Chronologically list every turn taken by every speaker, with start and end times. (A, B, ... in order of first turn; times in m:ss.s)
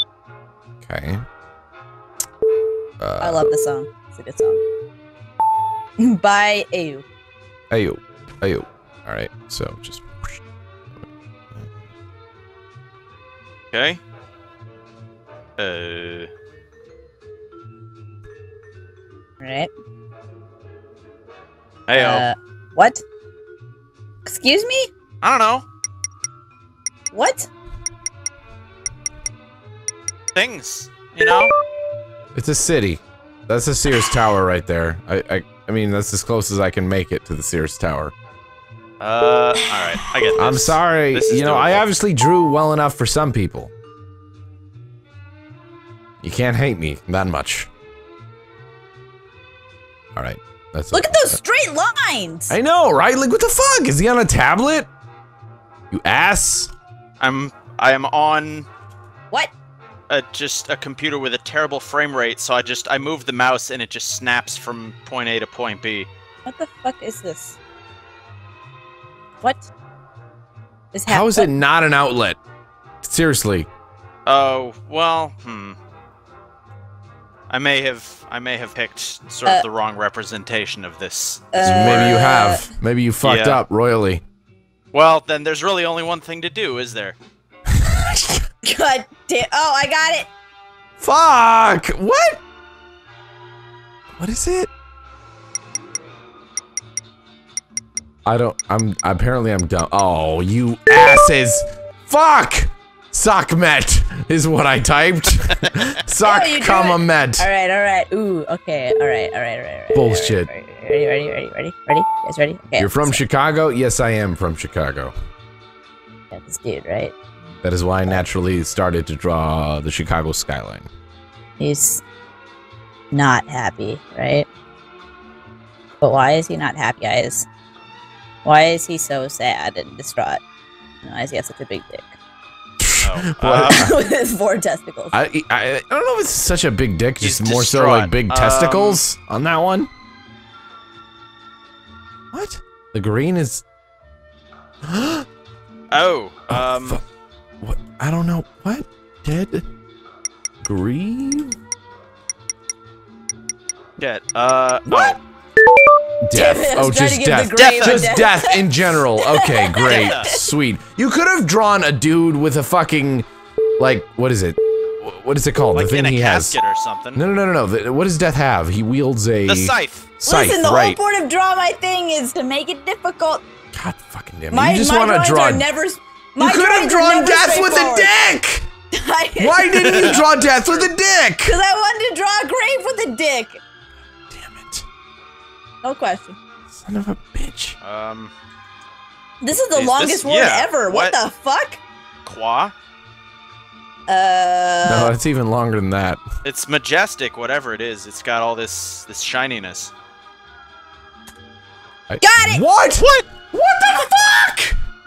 0:00.8-0:01.2 A
0:03.0-0:03.5 A
0:03.2-0:04.6 B
0:06.0-0:07.0 B
0:07.7-0:10.4 A
0:13.7-0:14.0 C
0:15.6-0:16.3 C
0:19.4-0:19.7 B
0:21.9-0:22.2 C
0:21.9-0:23.0 B
0:24.2-0:24.9 B
0:25.2-0:25.6 C
0:27.1-0:27.5 B
0:30.3-0:31.5 C
0:32.3-0:38.1 A
0:39.0-0:41.9 C
0:40.4-0:43.7 A
0:46.2-0:47.7 A
0:50.2-0:51.4 A
0:50.9-0:52.6 B
0:52.5-0:54.9 A
0:55.9-0:56.7 A
0:57.2-0:58.7 C
1:00.1-1:06.1 C
1:06.4-1:07.6 B
1:09.4-1:09.7 B
1:10.9-1:11.5 B
1:11.1-1:12.4 A
1:13.0-1:13.7 A
1:14.2-1:15.8 C
1:17.5-1:22.2 C
1:21.5-1:22.7 B
1:21.6-1:24.2 A
1:23.2-1:23.6 C
1:24.9-1:27.2 C
1:27.7-1:28.4 A
1:28.6-1:30.3 B
1:31.0-1:32.4 A
1:34.2-1:34.7 A
1:38.2-1:47.5 A
1:46.2-1:53.2 B
1:49.9-1:50.5 A
1:52.8-1:55.1 A
1:56.3-1:57.1 B
1:57.6-2:00.9 A
2:01.6-2:02.0 B
2:03.1-2:04.5 B
2:06.0-2:07.5 B
2:08.4-2:10.4 B
2:11.0-2:12.1 B
2:12.8-2:13.9 A
2:13.0-2:13.9 C
2:13.7-2:15.2 B
2:15.1-2:19.9 A
2:17.2-2:19.0 C
2:22.3-2:23.6 A
2:24.8-2:25.2 A
2:25.9-2:27.0 C
2:26.5-2:27.0 A
2:27.6-2:29.6 A
2:30.6-2:31.6 A
2:34.0-2:35.2 C
2:34.9-2:35.2 B
2:36.2-2:43.2 A
2:36.3-2:40.4 B
2:37.5-2:38.1 C
2:39.8-2:40.3 C
2:43.8-2:46.6 A
2:45.7-2:47.2 C
2:47.1-2:51.0 A
2:49.4-2:50.1 C
2:50.2-2:53.4 B
2:53.7-2:55.7 A
2:54.5-2:58.1 B
2:56.4-2:58.7 A
2:58.9-3:00.2 B
2:59.4-3:01.6 A
3:01.4-3:03.6 B
3:04.3-3:04.8 A
3:05.8-3:06.4 B
3:06.7-3:07.8 A
3:07.8-3:08.3 C
3:09.4-3:11.8 B
3:09.7-3:11.2 C
3:12.2-3:12.7 C
3:14.1-3:15.1 B
3:14.8-3:16.2 A
3:16.4-3:19.9 C
3:22.1-3:24.8 A
3:22.2-3:22.6 B